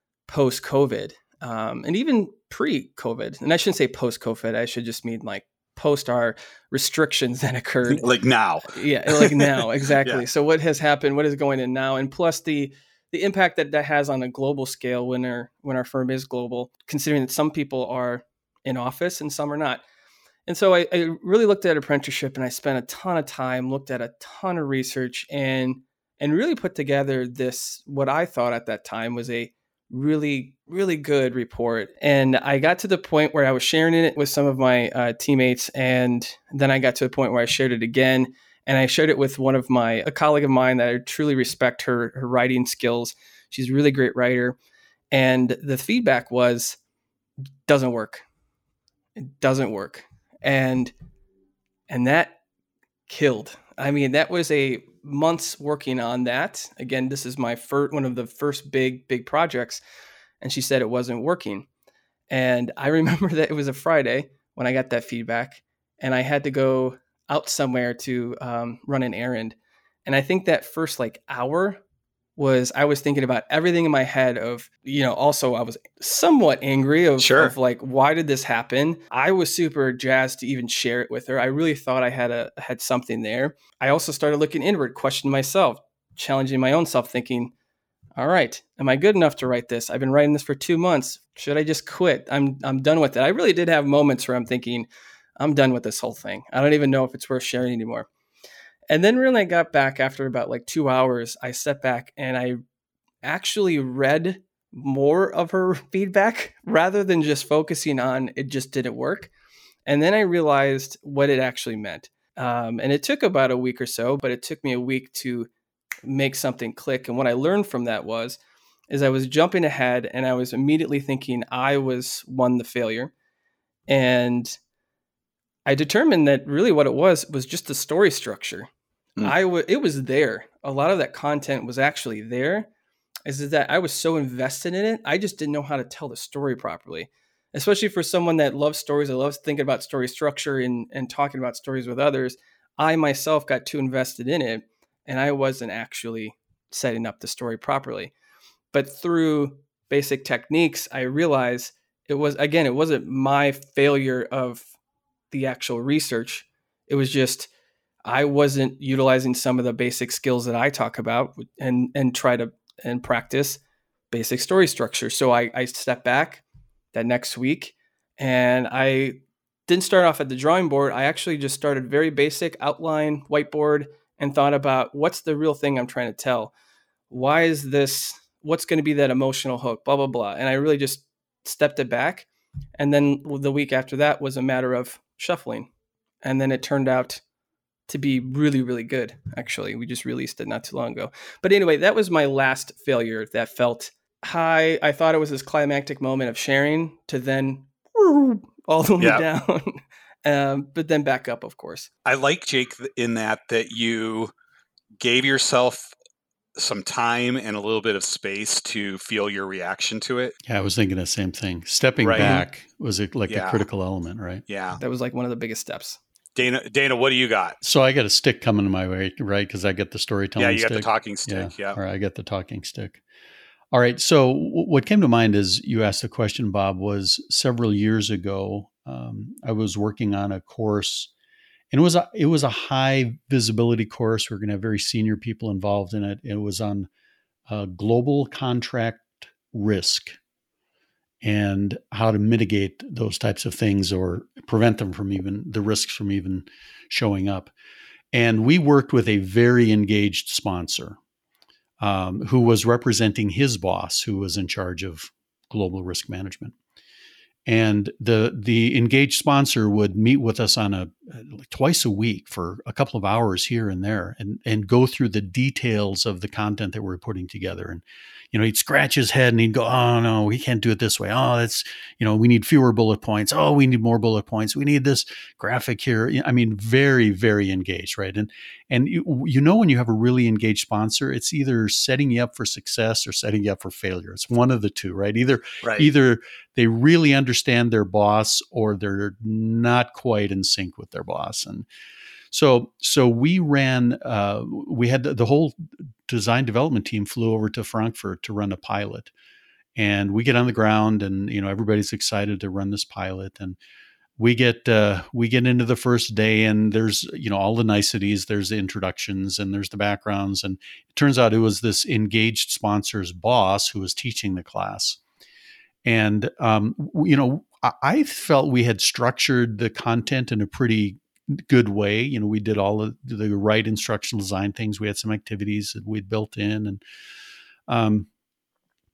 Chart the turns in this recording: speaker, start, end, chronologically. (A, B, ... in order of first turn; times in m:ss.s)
0:00.3-0:08.1 A
0:07.9-0:10.2 B
0:08.7-0:19.8 A
0:20.5-0:44.6 A
0:45.1-0:46.8 A
0:47.7-0:48.2 A
0:49.2-0:50.9 A
0:51.9-0:52.4 A
0:53.1-0:59.8 A
1:00.4-1:01.6 A
1:02.3-1:11.8 A
1:12.4-1:27.5 A
1:17.2-1:17.5 B
1:28.2-1:38.1 A
1:38.9-1:42.6 A
1:43.2-1:49.3 A
1:49.8-1:55.5 A
1:56.0-1:58.4 A
1:58.9-2:03.1 A
2:03.9-2:04.6 A
2:05.6-2:12.7 A
2:13.2-2:28.1 A
2:28.7-2:34.7 A
2:35.3-2:37.5 A
2:38.0-2:43.6 A
2:44.1-2:46.4 A
2:46.9-2:56.5 A
2:57.1-3:05.7 A
3:06.2-3:07.2 A
3:07.9-3:21.9 A
3:19.0-3:19.2 B
3:22.0-3:24.3 B
3:25.0-3:25.9 B
3:26.6-3:30.3 B
3:30.4-3:34.4 C
3:32.0-3:32.4 B
3:32.2-3:32.4 A
3:33.3-3:33.6 B
3:34.5-3:34.8 B
3:34.8-3:36.0 A
3:36.4-3:37.6 B
3:37.6-3:43.0 C
3:40.4-3:41.8 B
3:43.7-3:51.1 C
3:51.7-3:56.9 C
3:57.5-4:00.2 C
4:01.2-4:07.5 C
4:08.1-4:11.0 C
4:11.8-4:16.5 C
4:17.4-4:51.7 C
4:45.6-4:45.9 B
4:52.3-4:59.1 C
4:59.8-5:03.6 C
5:04.2-5:15.0 C
5:15.8-5:26.8 C
5:27.7-5:28.1 C